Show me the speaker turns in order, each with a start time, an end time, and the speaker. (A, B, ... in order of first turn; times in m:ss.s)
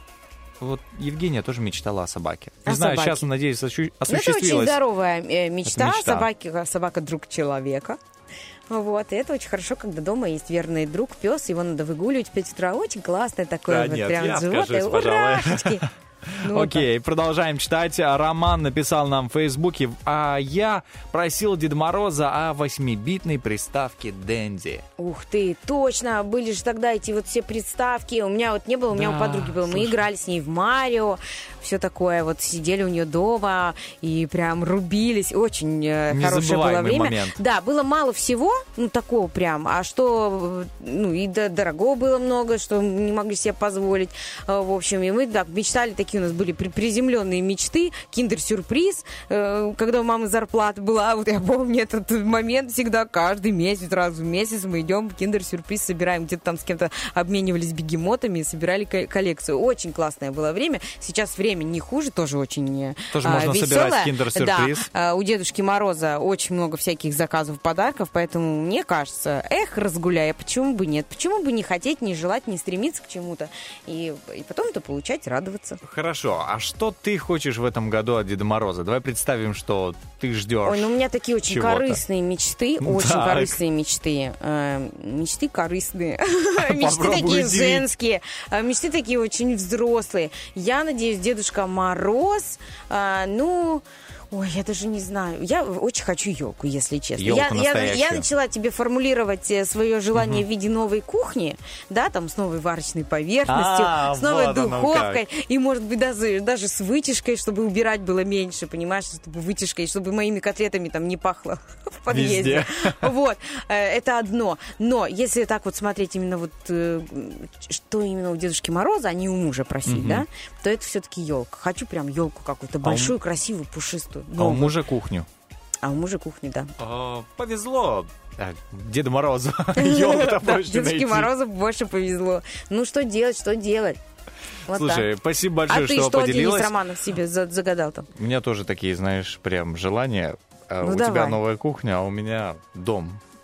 0:00.6-0:04.8 A
0:02.6-0:03.3 B
0:04.1-0:08.0 B
0:05.7-0:06.3 A
0:08.7-0:15.8 B
0:13.7-0:24.8 A
0:16.4-0:16.9 B
0:25.0-1:15.8 B
0:28.9-0:30.0 A
0:36.1-0:37.4 A
1:03.1-1:04.9 A
1:15.8-1:22.0 A
1:20.6-2:04.8 B
1:22.8-1:23.6 A
1:26.6-1:27.9 A
1:37.2-1:38.3 A
1:40.1-1:40.4 A
1:43.5-1:45.2 A
1:52.1-1:53.1 A
1:59.9-2:00.2 A
2:02.8-2:03.2 A
2:04.4-2:05.3 A
2:05.8-2:06.7 B
2:06.8-2:11.3 A
2:09.8-2:14.0 B
2:14.7-2:15.1 B
2:14.7-2:16.7 A
2:15.7-2:18.1 B
2:18.2-2:23.2 A
2:20.8-2:21.4 B